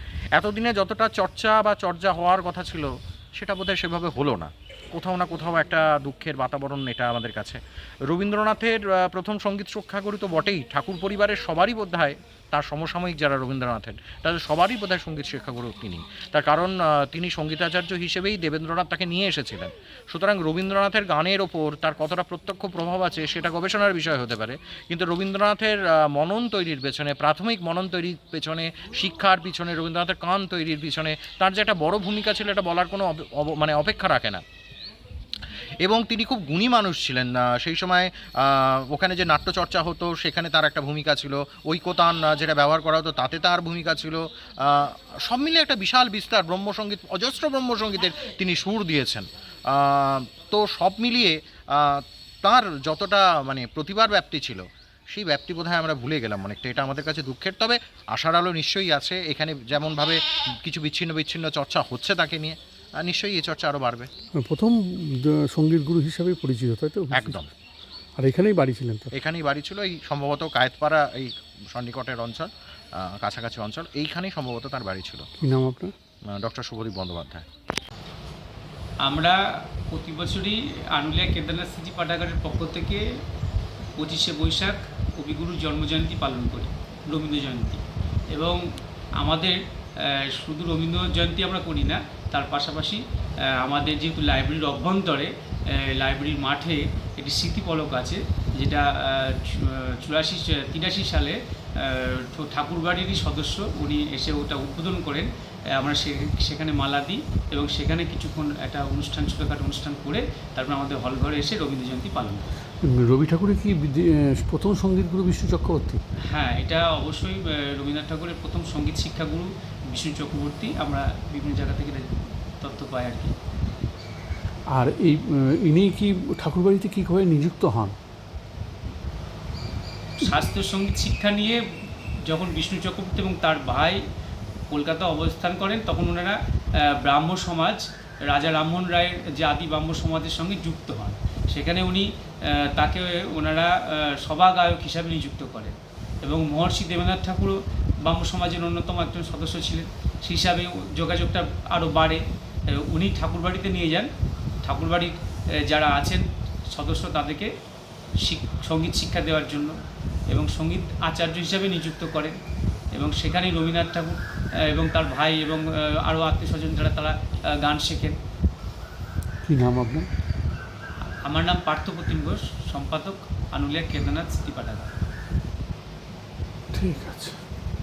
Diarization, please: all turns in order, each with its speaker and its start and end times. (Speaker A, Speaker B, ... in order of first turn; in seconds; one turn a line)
Speaker A: 0.3-34.4
Speaker A: 35.8-64.1
Speaker B: 64.3-67.4
Speaker A: 67.1-67.5
Speaker B: 68.2-69.1
Speaker A: 69.1-75.3
Speaker B: 75.4-75.9
Speaker A: 76.3-77.5
Speaker C: 79.0-83.0
Speaker C: 84.0-88.6
Speaker C: 89.2-93.0
Speaker C: 93.6-112.5
Speaker B: 112.8-116.0
Speaker C: 116.3-123.3
Speaker B: 124.7-128.0
Speaker C: 130.2-131.6
Speaker C: 132.2-134.0
Speaker C: 134.7-154.1
Speaker C: 154.6-157.5
Speaker C: 158.2-159.7
Speaker C: 160.3-162.3
Speaker C: 162.9-168.2
Speaker B: 169.4-170.1
Speaker C: 171.2-174.9
Speaker B: 176.7-177.4